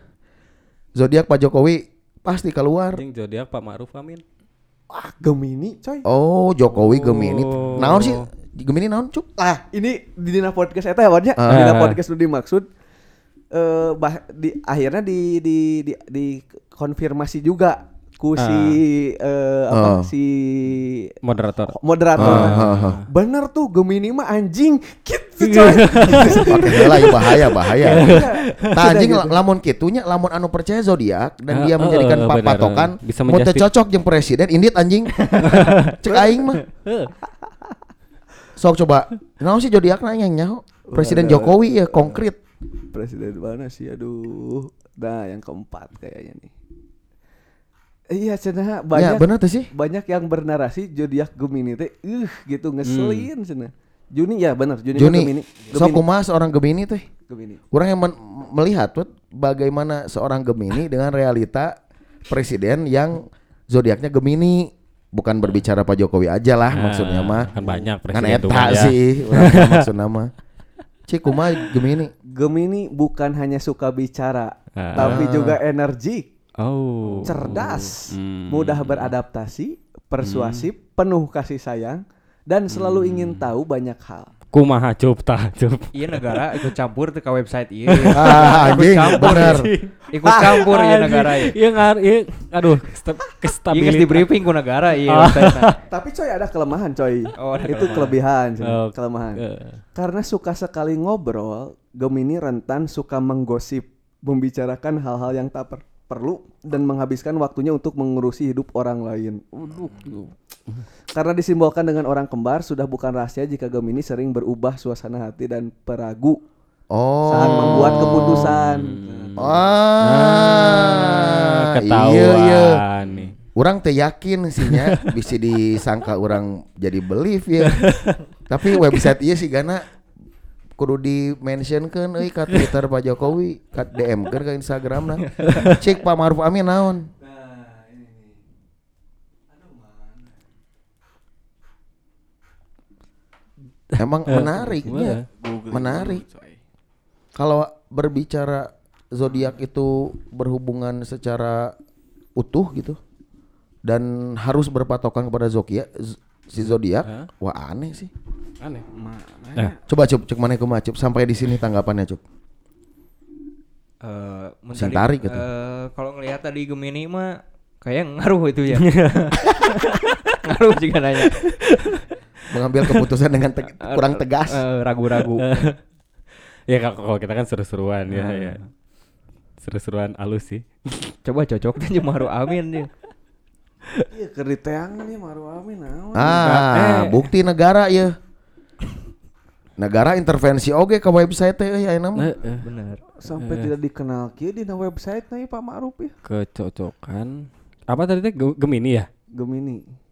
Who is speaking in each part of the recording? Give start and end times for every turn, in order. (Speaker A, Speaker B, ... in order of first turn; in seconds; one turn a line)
Speaker A: 0.9-3.0
Speaker B: 2.9-4.2
Speaker C: 4.9-6.0
Speaker A: 6.0-9.3
Speaker B: 6.7-8.3
Speaker C: 9.4-12.7
Speaker A: 11.4-11.7
Speaker B: 11.5-12.0
Speaker C: 13.5-21.1
Speaker B: 18.4-18.8
Speaker A: 19.7-20.1
Speaker B: 21.2-23.1
Speaker C: 21.7-27.2
Speaker A: 22.2-23.0
Speaker B: 25.4-28.8
Speaker A: 26.4-36.6
Speaker C: 27.8-29.4
Speaker B: 31.5-33.7
Speaker C: 35.3-36.3
Speaker B: 35.4-36.0
Speaker B: 36.6-37.1
Speaker A: 38.6-42.4
Speaker C: 40.9-42.2
Speaker C: 42.9-46.5
Speaker C: 48.1-56.0
Speaker A: 48.9-49.7
Speaker B: 52.8-53.3
Speaker A: 54.9-57.1
Speaker C: 57.3-57.6
Speaker A: 57.7-61.8
Speaker A: 62.3-67.5
Speaker B: 66.7-69.9
Speaker C: 67.5-67.9
Speaker A: 68.1-70.3
Speaker A: 71.1-72.1
Speaker C: 72.2-76.2
Speaker B: 74.8-75.6
Speaker B: 76.6-79.1
Speaker C: 77.2-84.3
Speaker B: 80.2-80.7
Speaker B: 82.7-83.5
Speaker B: 84.5-86.7
Speaker D: 85.9-89.6
Speaker B: 87.9-94.3
Speaker A: 88.1-89.7
Speaker D: 90.1-91.5
Speaker C: 90.2-90.7
Speaker D: 93.7-95.7
Speaker B: 95.0-95.8
Speaker C: 95.9-99.4
Speaker D: 97.4-98.1
Speaker B: 97.5-99.8
Speaker C: 99.9-110.3
Speaker C: 111.1-116.4
Speaker A: 116.9-118.2
Speaker C: 117.2-119.5
Speaker B: 117.4-123.3
Speaker A: 119.4-122.8
Speaker A: 123.5-127.8
Speaker B: 124.6-125.1
Speaker B: 127.8-128.2
Speaker A: 128.5-129.8
Speaker A: 130.8-137.1
Speaker B: 135.4-135.8
Speaker C: 137.2-138.4
Speaker C: 139.5-140.2
Speaker A: 144.0-146.2
Speaker B: 144.2-145.3
Speaker C: 145.0-146.6
Speaker A: 147.3-151.7
Speaker A: 152.3-153.0
Speaker A: 153.8-158.1
Speaker B: 157.0-157.3
Speaker B: 158.6-158.8
Speaker C: 158.9-159.8
Speaker A: 159.9-162.2
Speaker D: 164.0-169.5
Speaker A: 164.7-165.4
Speaker B: 168.7-170.2
Speaker D: 170.4-172.0
Speaker B: 171.2-171.6
Speaker A: 172.5-174.6
Speaker D: 173.8-175.7
Speaker B: 175.2-175.8
Speaker B: 176.7-178.6
Speaker D: 178.1-178.6
Speaker B: 179.6-181.1
Speaker D: 181.2-182.9
Speaker C: 184.1-186.5
Speaker A: 186.1-188.2
Speaker B: 186.3-187.3
Speaker A: 189.8-192.3
Speaker B: 192.2-192.7
Speaker D: 192.6-193.0
Speaker C: 193.2-196.1
Speaker B: 193.3-193.7
Speaker B: 196.2-199.1
Speaker C: 199.3-199.9